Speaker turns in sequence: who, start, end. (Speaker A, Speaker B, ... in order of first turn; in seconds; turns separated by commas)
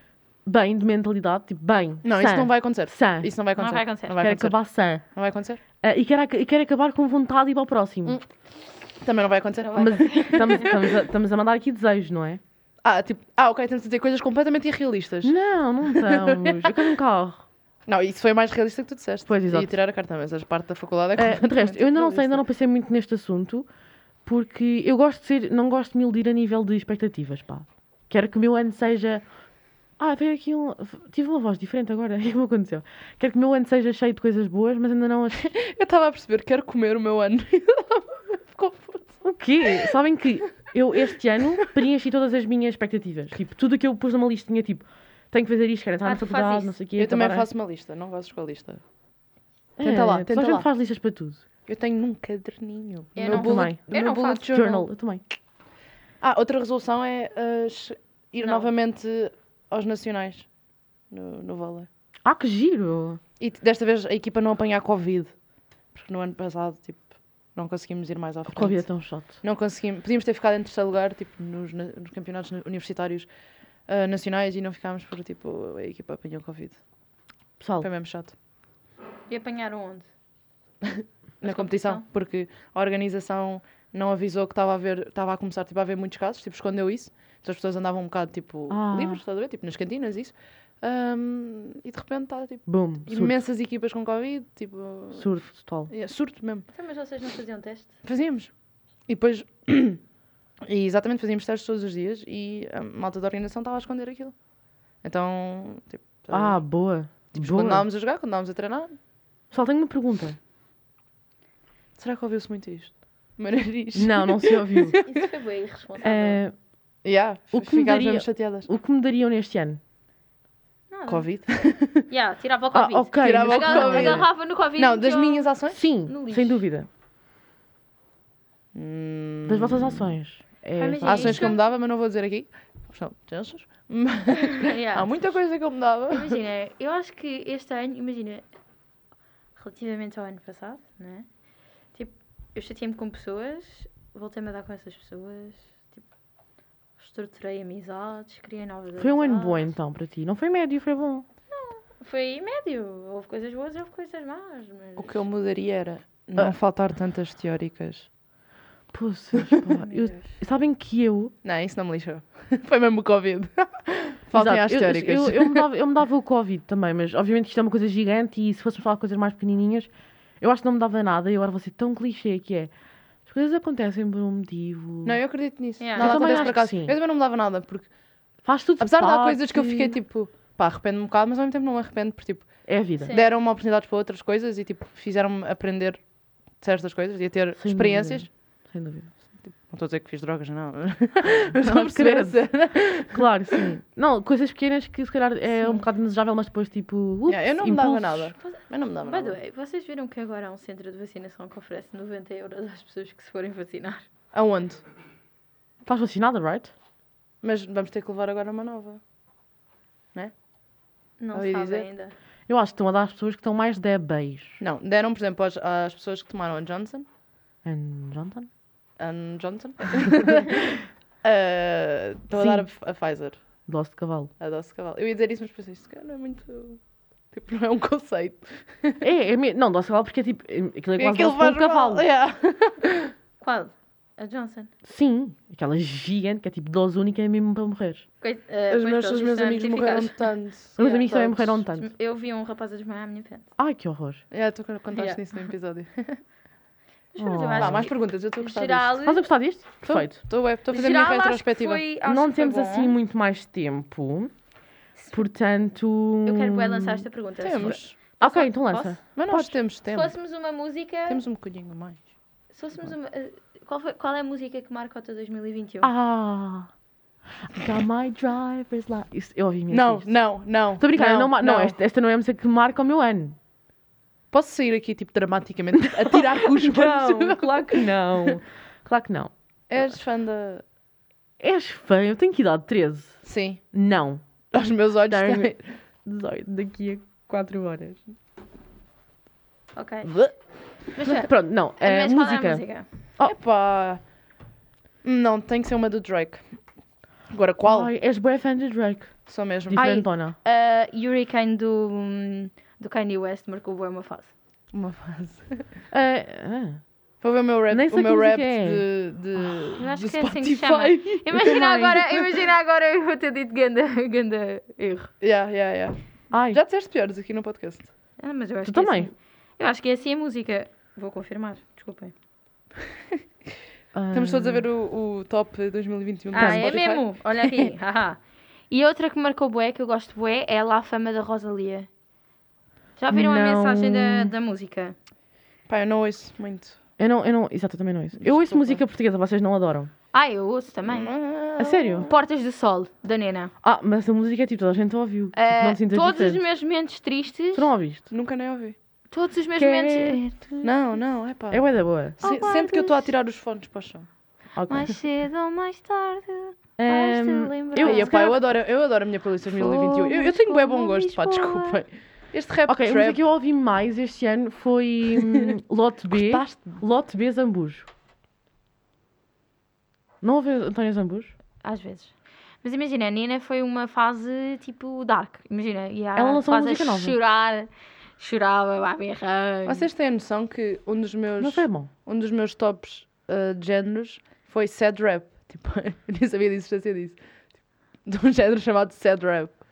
Speaker A: 0.5-3.3, Speaker B: 2.0-5.6, Speaker C: 3.6-4.2, Speaker A: 4.2-5.0, Speaker A: 5.8-8.2, Speaker B: 9.0-10.9, Speaker C: 9.7-10.7, Speaker A: 9.8-12.4, Speaker B: 12.8-16.8, Speaker A: 15.2-17.5, Speaker B: 17.9-22.4, Speaker A: 19.3-19.7, Speaker A: 21.2-23.7, Speaker A: 24.2-29.2, Speaker A: 30.0-35.5, Speaker B: 35.4-39.2, Speaker A: 39.2-47.5, Speaker C: 46.0-46.8, Speaker B: 47.0-48.8, Speaker A: 49.8-51.4, Speaker B: 49.8-50.7, Speaker B: 51.7-54.9, Speaker C: 53.2-54.5, Speaker A: 53.3-53.8, Speaker A: 54.5-55.2, Speaker B: 56.2-60.5, Speaker C: 58.4-58.7, Speaker B: 61.1-61.9, Speaker A: 62.2-63.2, Speaker B: 63.4-65.3, Speaker B: 65.9-73.3, Speaker A: 68.5-69.3, Speaker B: 73.9-76.8, Speaker A: 77.6-77.9, Speaker B: 77.8-78.3, Speaker C: 79.3-80.1, Speaker B: 80.8-96.7, Speaker C: 81.4-82.0, Speaker A: 88.7-89.2, Speaker A: 92.7-93.4, Speaker A: 95.2-95.9, Speaker C: 96.7-97.9, Speaker B: 98.0-98.5, Speaker B: 99.1-100.0, Speaker B: 100.7-104.3, Speaker B: 105.0-106.6, Speaker A: 106.3-107.9, Speaker B: 107.3-108.9, Speaker A: 109.5-110.4, Speaker B: 112.0-115.2, Speaker A: 114.0-115.0, Speaker C: 115.0-116.4, Speaker A: 116.0-116.5, Speaker B: 117.0-118.7, Speaker A: 117.5-119.8, Speaker C: 120.9-121.3, Speaker B: 121.1-122.1, Speaker C: 122.1-125.5, Speaker A: 122.7-124.3, Speaker B: 123.2-125.8, Speaker A: 125.7-126.9, Speaker C: 126.0-126.6, Speaker B: 128.7-130.1, Speaker A: 129.5-131.5, Speaker C: 130.8-131.6, Speaker B: 131.0-136.4, Speaker C: 134.3-135.2, Speaker C: 136.1-138.5, Speaker C: 139.6-141.3, Speaker C: 141.9-146.0, Speaker C: 147.0-149.6, Speaker A: 149.0-151.2, Speaker C: 151.5-155.2, Speaker B: 155.0-158.1, Speaker A: 158.9-161.3, Speaker B: 159.4-159.6, Speaker C: 159.8-160.3, Speaker B: 161.4-165.6, Speaker A: 164.3-172.7, Speaker A: 173.3-175.2, Speaker B: 175.1-177.9, Speaker C: 175.8-176.6, Speaker A: 176.0-177.0, Speaker A: 178.4-180.0, Speaker B: 178.8-186.0, Speaker A: 182.7-183.1, Speaker C: 183.0-183.3, Speaker B: 186.6-188.3, Speaker A: 187.6-189.1, Speaker B: 189.6-193.6, Speaker A: 191.6-192.5, Speaker A: 193.1-198.3, Speaker B: 197.3-199.4, Speaker C: 198.4-204.0, Speaker B: 204.3-204.8, Speaker A: 205.8-206.7, Speaker B: 207.4-209.0, Speaker C: 211.2-212.1, Speaker B: 211.3-211.9, Speaker A: 212.5-214.6, Speaker B: 214.6-217.1, Speaker A: 217.6-218.5, Speaker B: 219.0-223.4, Speaker A: 222.3-222.7, Speaker A: 223.7-224.3, Speaker B: 224.4-226.8, Speaker B: 227.3-229.1, Speaker A: 229.0-232.1, Speaker B: 231.0-233.1, Speaker C: 233.4-234.7, Speaker A: 234.8-238.1, Speaker C: 238.2-240.2, Speaker B: 238.7-241.2, Speaker A: 240.8-241.9, Speaker C: 240.8-243.5, Speaker A: 243.6-244.2, Speaker B: 244.3-246.2, Speaker C: 244.9-245.2, Speaker C: 247.1-249.2, Speaker A: 247.2-247.9, Speaker B: 247.6-249.0, Speaker A: 249.0-250.2, Speaker B: 249.8-251.8, Speaker C: 250.7-253.0, Speaker A: 252.0-254.3, Speaker C: 255.0-255.2, Speaker A: 255.1-257.1, Speaker C: 256.2-259.0, Speaker B: 257.4-258.0, Speaker A: 258.2-259.6, Speaker B: 259.1-260.1, Speaker C: 259.9-261.2, Speaker B: 261.1-262.0, Speaker C: 262.5-265.9, Speaker A: 265.8-266.7, Speaker A: 267.4-270.1, Speaker B: 269.7-271.8, Speaker A: 270.8-273.4, Speaker B: 274.3-278.4, Speaker A: 275.8-279.3, Speaker B: 279.7-280.6, Speaker A: 281.4-284.2, Speaker B: 283.2-283.6, Speaker B: 284.5-285.7, Speaker A: 285.1-288.0, Speaker C: 289.8-290.1, Speaker B: 290.0-290.3, Speaker C: 290.9-292.9, Speaker A: 291.0-292.6, Speaker B: 293.2-294.0, Speaker B: 295.0-296.6, Speaker B: 297.3-297.9, Speaker A: 297.6-300.4, Speaker B: 299.3-299.9, Speaker C: 299.8-304.3, Speaker B: 304.7-305.6, Speaker A: 305.9-306.8, Speaker B: 307.2-311.9, Speaker A: 307.7-308.8, Speaker C: 309.8-315.1, Speaker A: 311.4-312.0, Speaker B: 315.2-316.0, Speaker A: 316.3-316.6, Speaker B: 316.5-317.9, Speaker C: 318.2-322.1, Speaker A: 318.6-319.1, Speaker A: 323.9-324.7, Speaker B: 324.1-327.7, Speaker C: 326.3-331.9, Speaker A: 326.4-326.8, Speaker C: 333.0-335.0, Speaker A: 333.1-334.3, Speaker B: 335.7-336.8, Speaker A: 337.0-339.9, Speaker B: 338.2-338.8, Speaker C: 340.1-341.1, Speaker B: 340.9-342.1, Speaker A: 341.6-342.1, Speaker C: 342.0-343.5, Speaker A: 343.6-346.4, Speaker C: 345.3-347.7, Speaker A: 347.5-348.0, Speaker B: 348.1-348.8, Speaker C: 349.1-350.6, Speaker A: 349.6-350.6, Speaker B: 350.6-354.1, Speaker A: 351.5-352.2, Speaker C: 352.2-353.1, Speaker A: 354.6-354.9, Speaker C: 354.7-358.3, Speaker A: 356.8-358.4, Speaker B: 357.8-363.2, Speaker C: 359.5-361.8, Speaker A: 362.7-367.9, Speaker B: 365.2-365.5, Speaker B: 366.1-366.8, Speaker A: 370.2-371.3, Speaker C: 371.6-379.9, Speaker A: 376.2-377.2, Speaker B: 379.7-387.2, Speaker A: 381.4-381.9, Speaker B: 388.1-389.6